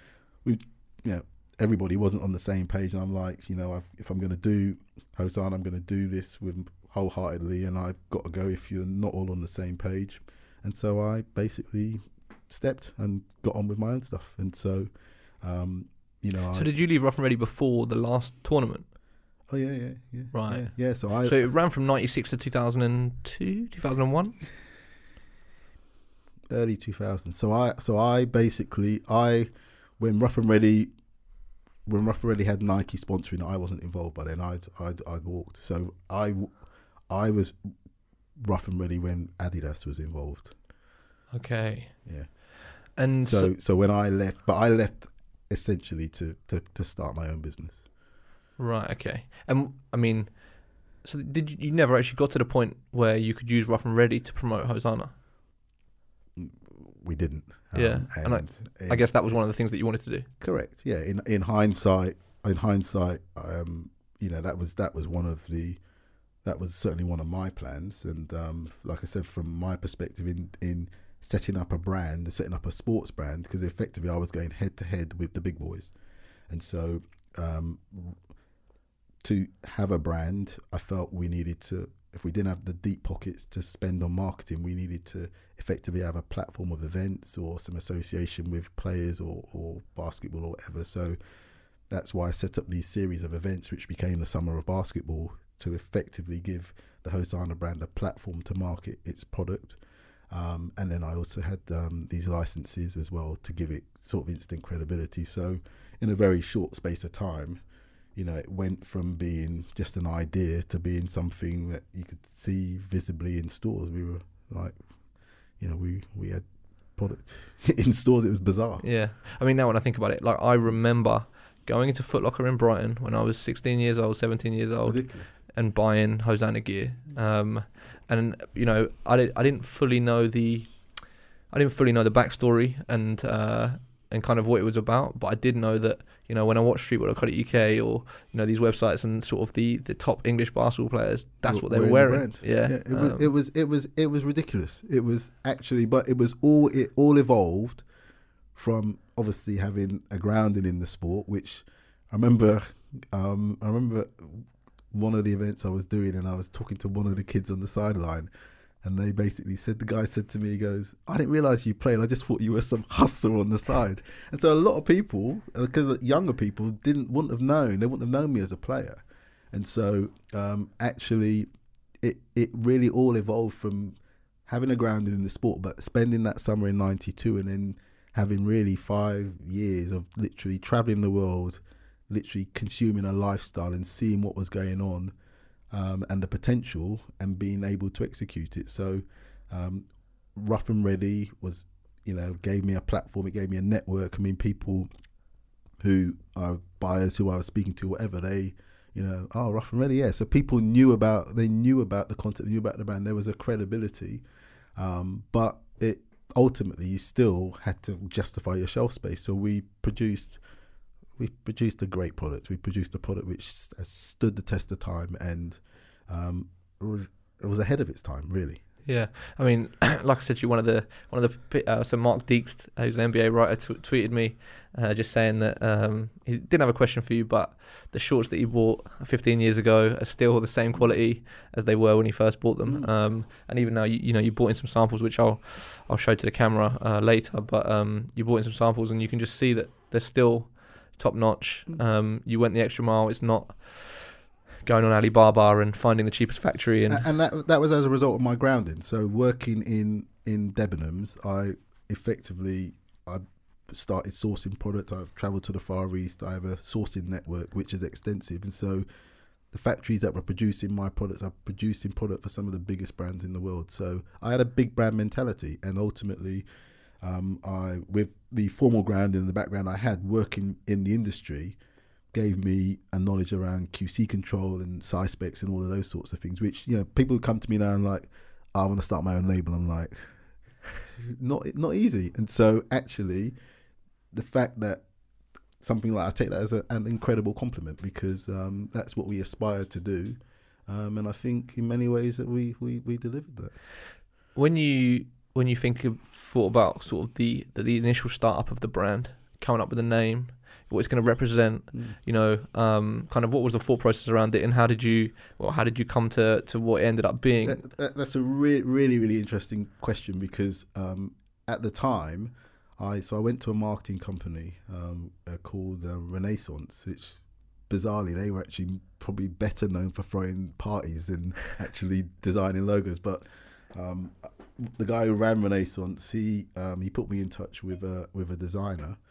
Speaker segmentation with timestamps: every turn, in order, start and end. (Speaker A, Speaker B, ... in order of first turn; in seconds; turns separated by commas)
Speaker A: 0.4-16.7, Speaker B: 16.5-18.9, Speaker A: 19.5-21.4, Speaker B: 20.3-24.4, Speaker A: 26.5-30.9, Speaker A: 31.9-36.6, Speaker A: 37.1-37.6, Speaker A: 38.4-40.5, Speaker B: 41.3-42.3, Speaker A: 42.0-42.3, Speaker B: 43.0-43.5, Speaker A: 43.2-47.8, Speaker B: 48.6-50.5, Speaker B: 51.0-55.1, Speaker A: 56.4-59.1, Speaker B: 57.8-60.3, Speaker A: 60.4-65.8, Speaker A: 66.4-75.9, Speaker A: 76.5-78.2, Speaker A: 79.2-91.2, Speaker A: 91.9-99.8, Speaker A: 100.3-107.6, Speaker A: 108.2-114.8, Speaker A: 115.6-116.5, Speaker A: 117.0-118.8, Speaker B: 118.8-143.3, Speaker A: 124.8-125.4, Speaker A: 141.4-147.8, Speaker A: 148.6-158.3, Speaker A: 158.8-171.5, Speaker A: 172.0-185.1, Speaker A: 185.7-194.9, Speaker A: 195.8-204.2, Speaker A: 204.8-210.4, Speaker A: 211.2-218.6, Speaker B: 218.8-247.1, Speaker A: 246.9-258.9, Speaker A: 259.5-266.4, Speaker A: 267.0-271.6, Speaker A: 272.1-283.4, Speaker A: 284.1-284.8, Speaker A: 285.6-293.5, Speaker B: 294.4-307.6, Speaker A: 307.4-329.0